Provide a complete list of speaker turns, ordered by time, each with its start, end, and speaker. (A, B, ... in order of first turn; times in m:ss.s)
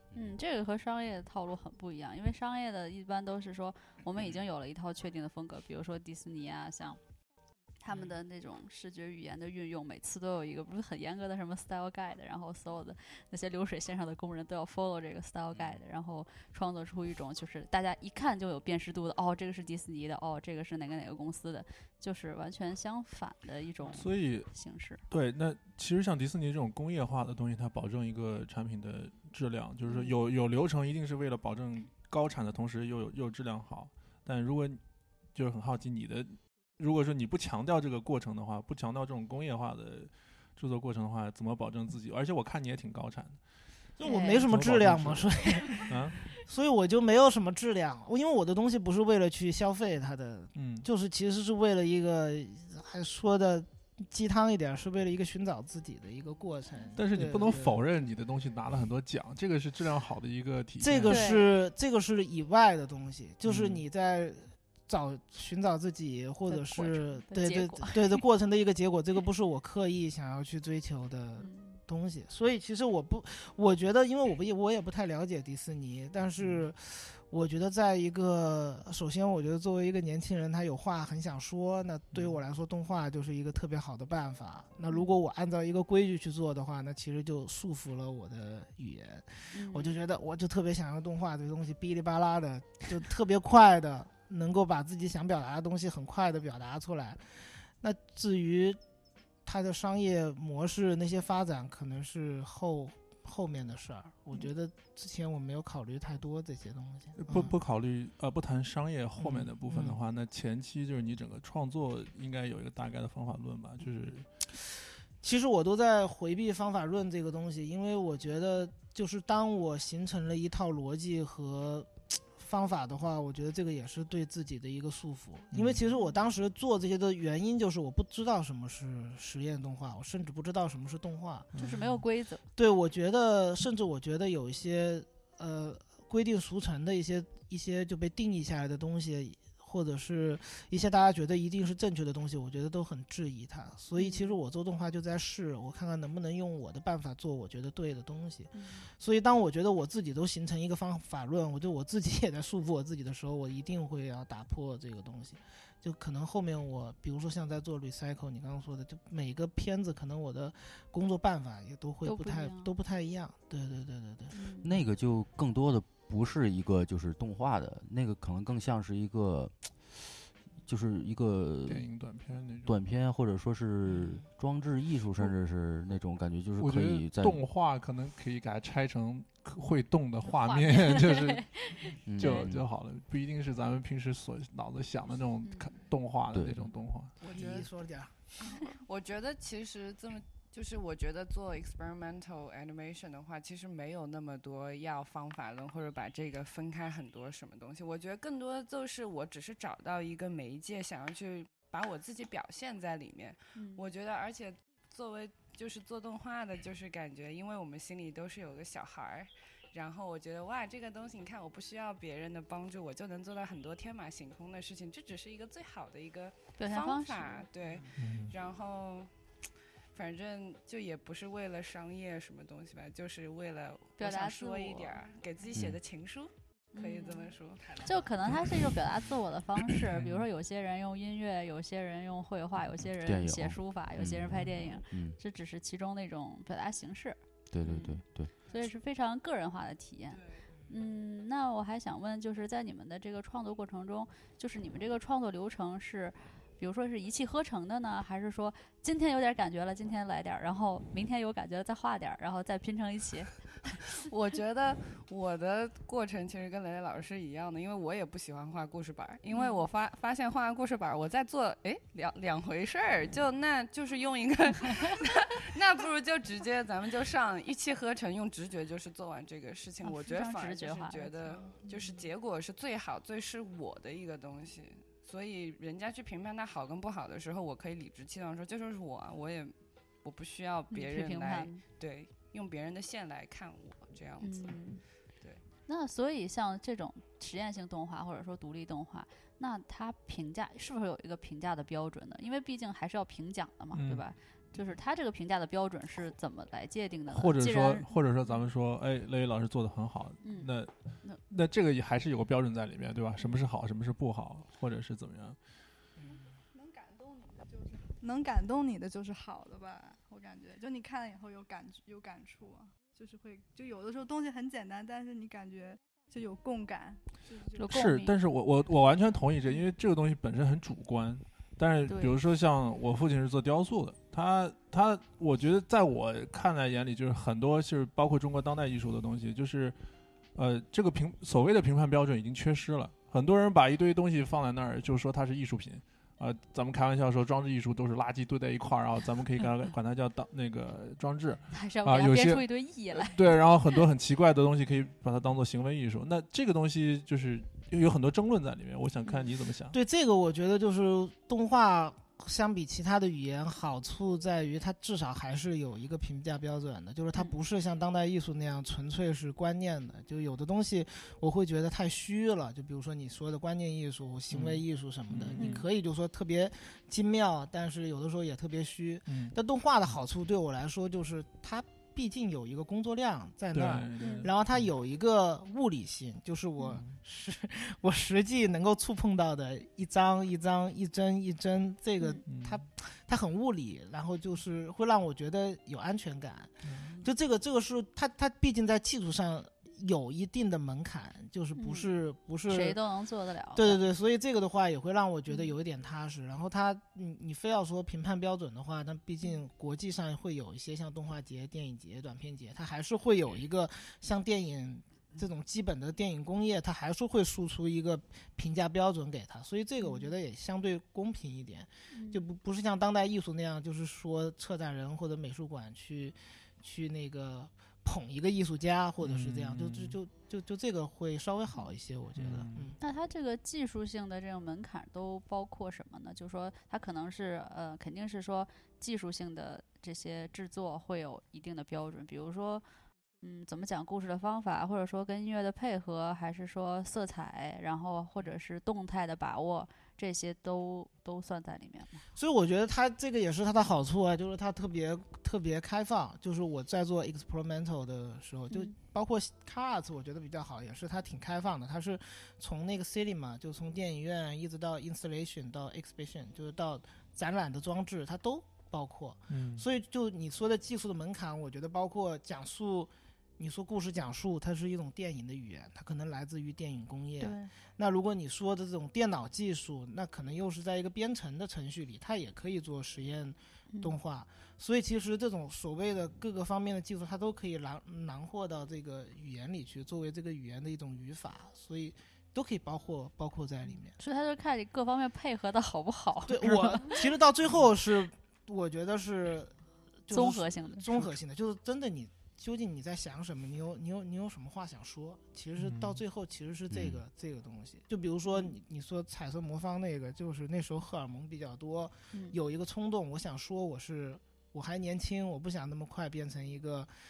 0:00.1-0:07.0 A
0:07.8-0:25.0 A
0:23.8-0:24.5 B
0:25.1-0:34.8 B
0:29.9-0:30.1 A
0:35.3-0:43.4 B
0:44.0-0:57.8 C
0:44.0-0:44.4 A
0:44.4-0:45.3 B
0:45.9-0:46.2 B
0:50.6-0:50.9 B
0:57.0-1:01.3 B
1:00.8-1:37.2 C
1:01.1-1:01.5 A
1:03.4-1:03.8 B
1:06.5-1:08.2 A
1:11.4-1:11.8 A
1:22.1-1:22.4 B
1:29.5-1:30.0 A
1:37.8-1:38.8 C
1:39.5-1:47.6 C
1:47.2-1:54.2 B
1:49.2-1:50.0 C
1:55.2-2:11.5 C
2:05.5-2:05.8 B
2:11.5-2:12.0 B
2:11.6-2:12.5 A
2:12.6-2:44.4 C
2:24.0-2:24.4 A
2:28.5-2:28.9 A
2:42.0-2:42.7 A
2:44.3-2:44.7 A
2:44.6-2:50.1 D
2:50.7-2:51.9 D
2:51.7-2:52.7 B
2:52.6-2:57.4 D
2:56.6-3:01.5 B
3:00.2-3:02.5 A
3:02.1-3:02.7 D
3:02.2-3:07.2 B
3:05.4-3:05.7 A
3:06.3-3:06.6 D
3:07.2-3:07.7 E
3:07.2-3:08.2 C
3:08.6-3:39.1 E
3:23.6-3:23.8 A
3:36.6-3:37.5 A
3:38.0-3:38.3 B
3:39.9-3:47.9 E
3:44.0-3:45.0 A
3:45.5-3:45.8 D
3:46.7-4:13.3 A
3:49.8-3:50.3 B
3:53.0-3:55.2 D
3:57.5-3:58.3 D
4:00.1-4:00.4 E
4:14.0-4:44.6 E
4:19.3-4:19.6 A
4:29.8-4:32.0 A
4:40.7-4:41.6 A
4:44.2-4:44.8 A
4:45.7-4:58.4 A
4:53.7-4:54.1 B
4:57.1-5:00.7 B
5:00.2-5:00.5 A
5:01.3-5:05.4 B
5:06.1-5:17.7 F
5:17.6-5:18.2 A
5:17.7-5:29.8 B
5:21.9-5:22.2 A
5:30.4-5:49.8 B
5:41.5-5:43.2 A
5:49.0-5:49.3 A
5:49.7-6:32.8 C
6:04.3-6:05.6 B
6:05.4-6:05.7 A
6:09.1-6:09.4 B
6:13.5-6:14.6 B
6:14.0-6:14.3 A
6:22.3-6:22.6 B
6:26.6-6:27.0 B
6:31.6-6:31.9 A
6:32.5-6:33.8 A
6:33.5-7:02.8 C
6:49.8-6:50.1 A
6:51.9-6:52.2 A
6:59.0-7:00.0 B
7:02.2-7:02.7 B
7:02.8-7:12.6 A
7:13.2-7:22.0 A
7:22.2-8:04.0 C
7:39.3-7:39.7 B
7:47.2-7:47.5 A
8:04.0-8:07.0 A
8:06.3-8:09.5 C
8:10.1-8:26.9 C
8:10.1-8:11.1 A
8:15.6-8:16.0 B
8:16.7-8:17.0 D